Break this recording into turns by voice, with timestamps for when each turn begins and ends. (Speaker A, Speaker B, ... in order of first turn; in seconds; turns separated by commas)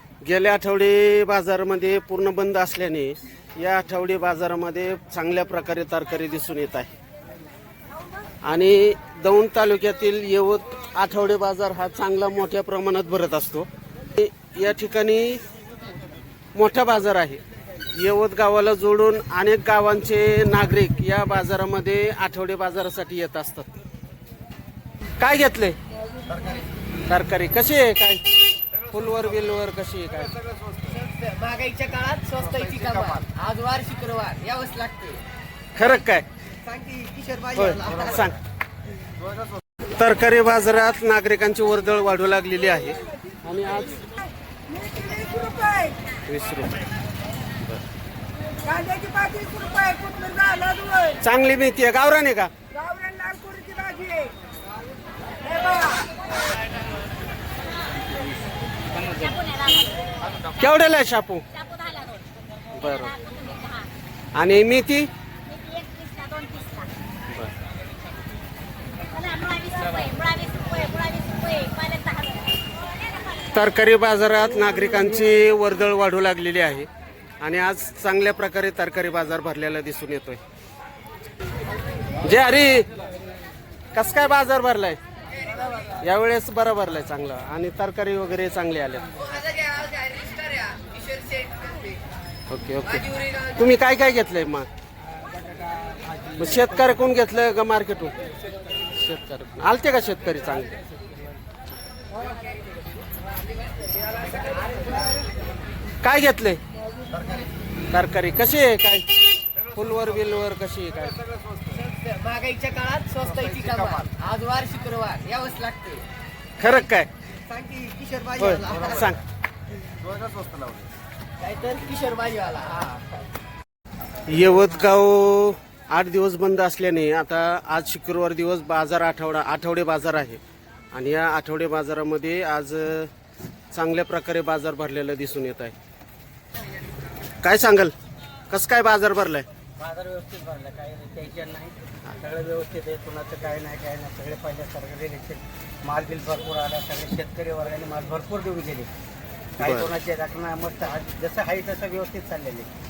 Speaker A: 0.2-6.9, Speaker A: 8.4-15.4, Speaker A: 16.5-17.4, Speaker A: 17.9-23.7, Speaker A: 25.2-25.8, Speaker A: 27.1-30.4, Speaker B: 30.9-35.2, Speaker A: 35.7-36.2, Speaker C: 37.0-37.5, Speaker A: 37.5-38.4, Speaker A: 40.0-44.1, Speaker D: 44.9-46.0, Speaker A: 46.2-46.8, Speaker D: 48.8-51.0, Speaker A: 51.1-52.5, Speaker D: 52.9-54.3, Speaker D: 55.6-56.0, Speaker D: 59.1-60.0, Speaker A: 60.5-61.5, Speaker D: 61.6-62.3, Speaker A: 62.7-63.3, Speaker D: 63.2-63.9, Speaker A: 64.3-65.1, Speaker D: 65.4-66.9, Speaker D: 69.1-72.6, Speaker A: 73.5-76.9, Speaker A: 77.4-80.4, Speaker A: 82.2-82.9, Speaker A: 83.9-85.0, Speaker A: 86.0-89.6, Speaker B: 89.7-91.8, Speaker A: 92.5-94.7, Speaker A: 96.3-98.1, Speaker A: 98.9-100.8, Speaker A: 106.0-106.6, Speaker A: 107.9-109.0, Speaker A: 109.6-111.2, Speaker B: 111.8-116.0, Speaker C: 112.4-112.8, Speaker A: 116.6-117.1, Speaker A: 118.3-119.2, Speaker B: 121.4-123.0, Speaker C: 121.5-122.7, Speaker A: 124.3-130.4, Speaker A: 130.9-133.1, Speaker A: 133.7-135.7, Speaker A: 137.4-137.9, Speaker A: 138.5-139.4, Speaker C: 139.8-148.9, Speaker A: 149.6-149.9, Speaker C: 149.6-152.7